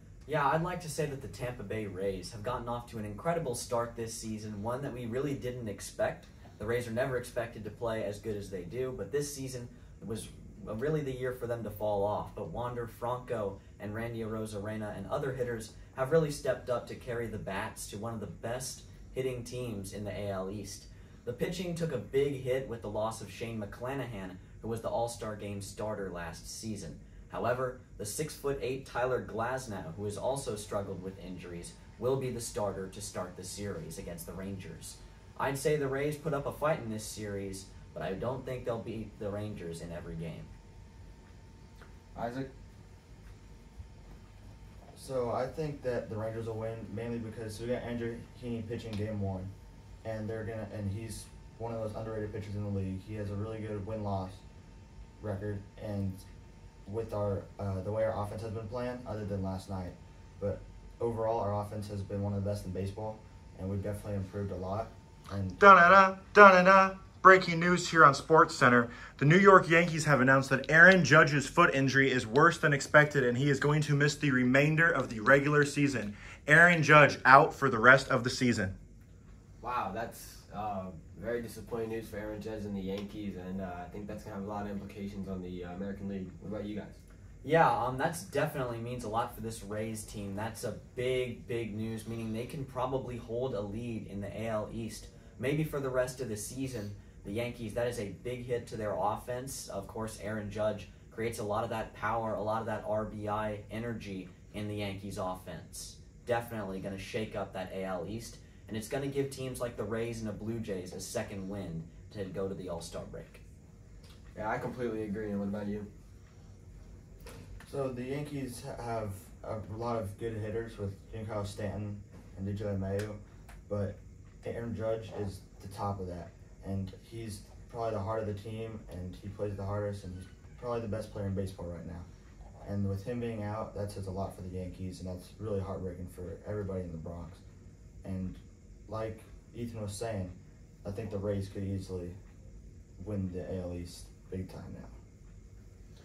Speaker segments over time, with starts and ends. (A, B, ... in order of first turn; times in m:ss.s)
0:00.3-0:40.5 A
0:42.1-0:42.5 B
0:44.9-0:49.5 B
0:50.0-0:54.4 B
0:55.2-0:56.2 B
0:56.8-1:05.6 B
1:05.6-1:18.7 C
1:19.6-1:27.0 D
1:27.4-1:53.4 A
1:54.3-1:55.9 D
1:57.6-2:12.1 B
2:12.6-2:17.4 B
2:18.0-2:22.2 B
2:23.0-2:24.9 B